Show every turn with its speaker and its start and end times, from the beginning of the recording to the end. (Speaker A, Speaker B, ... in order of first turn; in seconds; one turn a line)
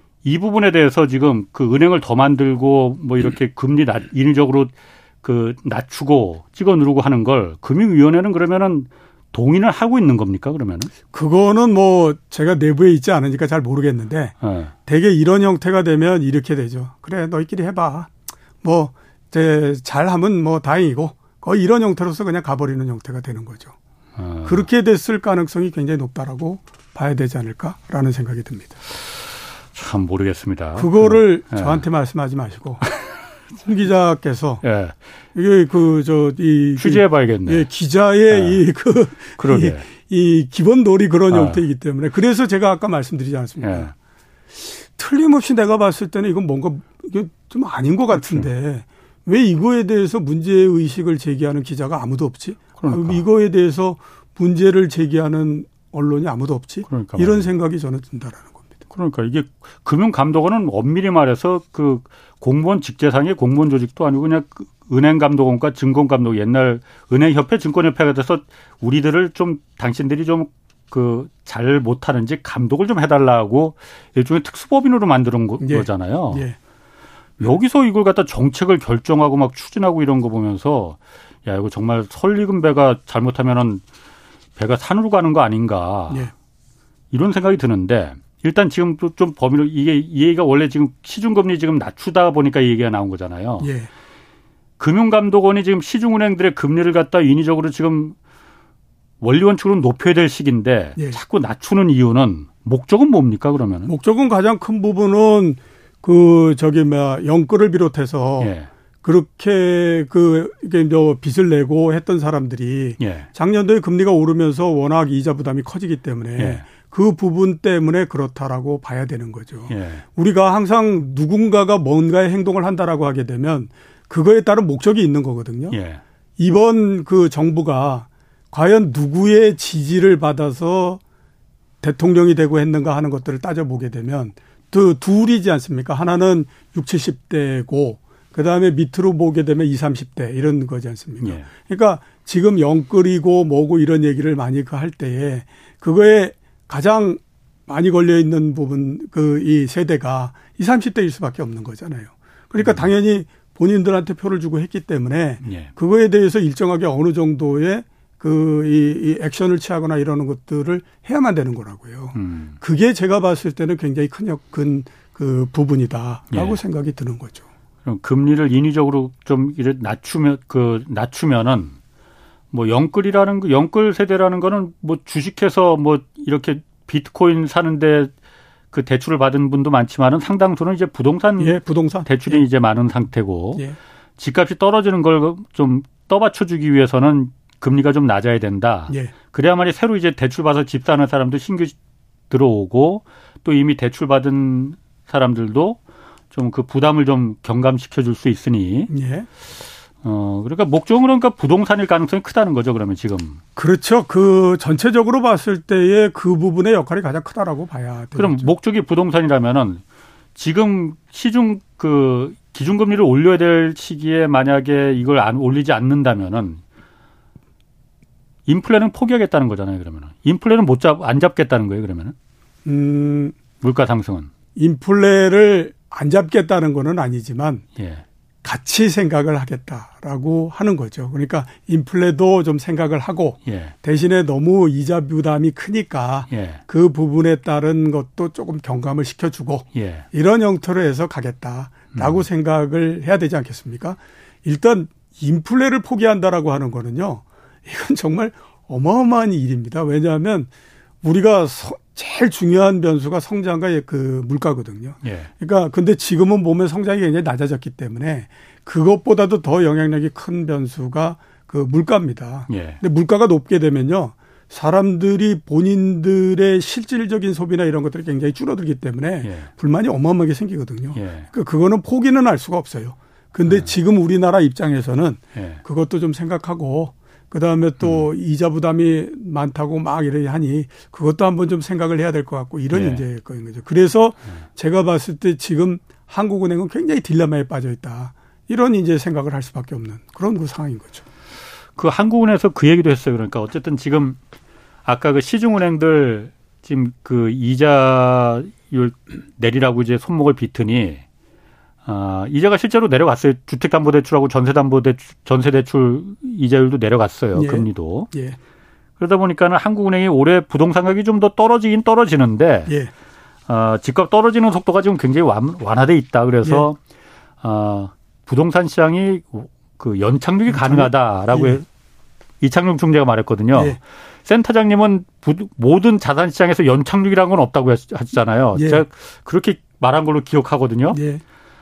Speaker A: 0.2-10.9
Speaker B: 11.1-14.3
Speaker A: 14.4-14.7
Speaker B: 14.9-18.1
Speaker B: 18.6-23.8
Speaker A: 24.2-24.7
Speaker B: 24.4-28.8
Speaker A: 29.7-31.8
Speaker B: 30.8-32.9
Speaker B: 33.6-34.6
Speaker A: 34.6-35.0
Speaker B: 35.4-43.9
Speaker A: 36.8-37.7
Speaker A: 38.3-38.6
Speaker A: 39.4-39.9
Speaker A: 41.3-41.6
Speaker A: 43.6-43.9
Speaker B: 44.5-58.7
Speaker A: 48.1-48.5
Speaker A: 52.8-53.2
Speaker A: 56.9-57.5
Speaker A: 58.9-76.5
Speaker B: 75.6-76.6
Speaker A: 77.4-83.8
Speaker A: 84.6-86.3
Speaker A: 87.1-93.7
Speaker B: 93.6-93.9
Speaker A: 94.8-98.2
Speaker A: 99.2-103.9
Speaker B: 103.8-125.8
Speaker A: 108.4-108.7
Speaker A: 113.0-113.3
Speaker A: 116.4-116.7
Speaker A: 119.7-120.0
Speaker A: 125.7-126.0
Speaker B: 126.4-131.0
Speaker B: 131.8-167.4
Speaker A: 141.2-141.5
Speaker A: 152.6-152.9
Speaker A: 155.4-155.7
Speaker A: 162.1-162.6
Speaker A: 166.3-166.6
Speaker A: 167.8-171.8
Speaker A: 172.5-178.1
Speaker A: 178.7-183.7
Speaker B: 181.4-182.4
Speaker A: 184.2-191.8
Speaker A: 192.3-195.8
Speaker A: 196.3-198.9
Speaker B: 198.9-199.3
Speaker A: 200.0-203.4
Speaker B: 203.6-208.5
Speaker A: 208.2-209.8
Speaker A: 210.3-216.6
Speaker A: 218.5-222.2
Speaker B: 222.7-223.4
Speaker A: 223.6-224.3
Speaker B: 224.6-227.7
Speaker A: 227.8-228.0
Speaker B: 228.4-250.5
Speaker A: 233.5-233.7
Speaker A: 236.3-236.6
Speaker A: 239.7-240.1
Speaker A: 241.9-242.2
Speaker B: 251.0-291.0
Speaker A: 255.0-255.3
Speaker A: 262.5-262.8
Speaker A: 269.2-269.5
Speaker A: 270.9-271.3
Speaker A: 273.5-273.7
Speaker A: 275.4-275.6
Speaker A: 277.8-278.1
Speaker A: 282.7-283.0
Speaker A: 291.8-294.2
Speaker A: 294.9-301.0
Speaker A: 301.9-308.1
Speaker B: 307.3-308.4
Speaker A: 309.0-312.7
Speaker A: 313.5-316.8
Speaker A: 317.4-321.6
Speaker B: 320.5-321.6
Speaker A: 322.4-331.0
Speaker B: 328.6-328.8
Speaker B: 330.9-331.2